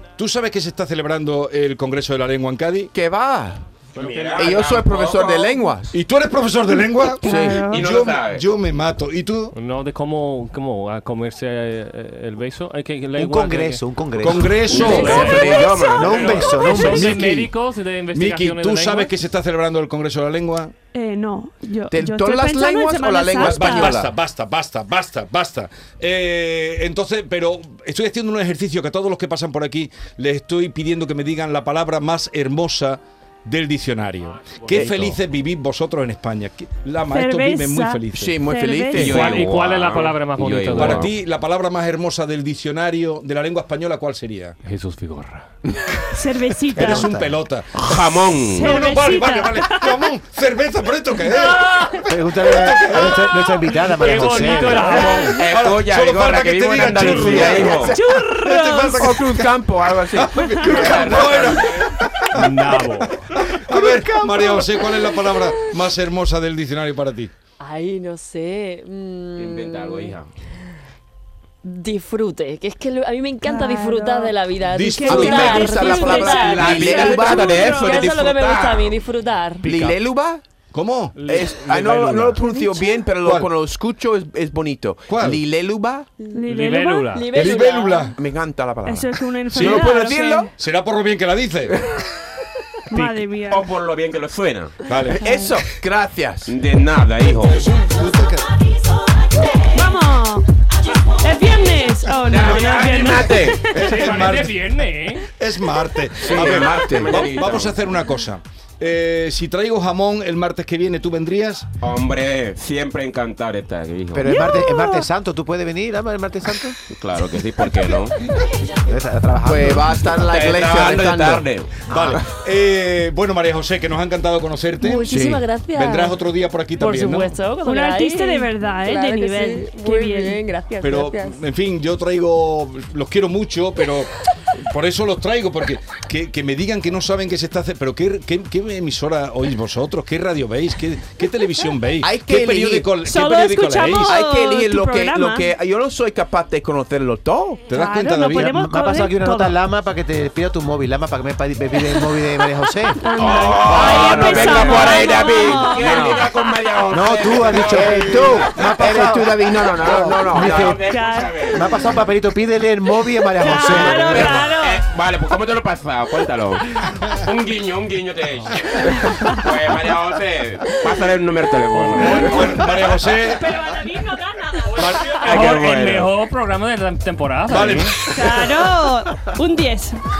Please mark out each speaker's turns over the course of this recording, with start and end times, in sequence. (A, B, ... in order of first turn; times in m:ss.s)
0:00.2-0:02.9 A
0:02.9-0:03.8 B
0:04.0-0:05.6 C
0:04.0-0:04.5 D
0:04.4-0:06.0 B
0:05.9-0:09.5 A
0:07.2-0:07.6 B
0:07.2-0:07.8 E
0:07.7-0:08.4 C
0:09.5-0:15.5 D
0:13.2-0:17.3 F
0:14.2-0:15.3 A
0:14.7-0:16.8 C
0:15.2-0:15.7 B
0:16.2-0:19.1 D
0:16.8-0:17.5 A
0:18.1-0:20.7 A
0:20.9-0:24.0 E
0:21.9-0:24.1 B
0:23.4-0:38.4 A
0:34.7-0:35.2 B
0:37.1-0:39.2 E
0:38.2-0:39.4 B
0:38.9-0:41.1 C
0:39.0-0:41.1 D
0:40.7-0:44.6 A
0:44.6-0:45.5 D
0:46.1-0:47.1 E
0:46.7-0:48.0 A
0:47.8-0:48.9 C
0:48.5-0:50.0 E
0:48.6-0:53.6 A
0:51.4-0:51.8 E
0:52.1-0:55.0 F
0:53.8-0:55.4 D
0:54.8-0:55.4 E
0:55.3-0:58.0 C
0:55.4-0:57.8 A
0:57.0-1:01.6 B
0:57.9-0:59.2 E
0:58.4-0:59.5 A
1:00.1-1:07.3 A
1:00.7-1:01.9 C
1:02.3-1:03.3 D
1:07.6-1:10.2 G
1:09.4-1:10.3 C
1:11.6-1:19.6 G
1:13.4-1:18.0 E
1:14.7-1:15.7 A
1:15.0-1:17.8 B
1:16.3-1:19.0 C
1:19.6-1:20.0 D
1:19.6-1:20.4 B
1:20.7-1:22.4 A
1:21.2-1:21.6 D
1:21.3-1:26.1 B
1:23.2-1:23.5 A
1:25.1-1:25.4 A
1:26.4-1:27.1 E
1:26.5-1:27.4 D
1:27.1-1:28.1 G
1:27.3-1:28.2 A
1:28.2-1:30.5 B
1:28.8-1:30.5 E
1:29.5-1:29.9 A
1:30.6-1:31.9 A
1:32.9-1:33.7 E
1:32.9-1:33.2 D
1:33.5-1:34.8 C
1:34.9-1:35.2 A
1:35.1-1:36.5 B
1:35.2-1:35.5 E
1:36.5-1:37.8 C
1:37.5-1:38.5 A
1:39.7-1:40.5 E
1:41.0-1:43.6 E
1:42.3-1:44.2 C
1:42.7-1:43.6 B
1:43.6-1:44.6 A
1:43.7-1:45.3 D
1:45.2-1:51.7 A
1:46.2-1:47.4 B
1:46.3-1:47.8 C
1:51.8-1:54.3 C
1:54.1-1:56.8 F
1:54.5-1:54.9 E
1:56.9-1:58.2 C
1:58.9-2:00.0 F
1:59.4-2:01.5 B
2:00.3-2:02.3 C
2:01.9-2:05.2 A
2:04.8-2:06.2 G
2:05.1-2:05.4 B
2:05.7-2:07.4 A
2:06.8-2:11.4 G
2:07.6-2:10.4 E
2:10.8-2:24.2 A
2:22.0-2:23.0 B
2:23.0-2:25.5 E
2:24.0-2:27.6 B
2:27.7-2:28.5 A
2:27.7-2:29.6 E
2:28.3-2:33.1 F
2:33.0-2:36.3 E
2:33.2-2:38.4 C
2:33.7-2:34.4 A
2:35.6-2:36.2 B
2:36.9-2:41.0 F
2:37.7-2:40.8 B
2:40.3-2:41.9 C
2:40.8-2:41.9 E
2:41.5-2:44.5 F
2:43.4-2:44.8 E
2:43.6-2:52.4 C
2:49.1-2:49.4 E
2:52.0-2:53.6 A
2:52.0-2:52.5 E
2:53.2-2:55.2 E
2:54.8-2:55.5 A
2:55.2-2:56.1 C
2:55.3-2:58.0 D
2:57.5-2:58.6 A
2:58.1-3:00.0 E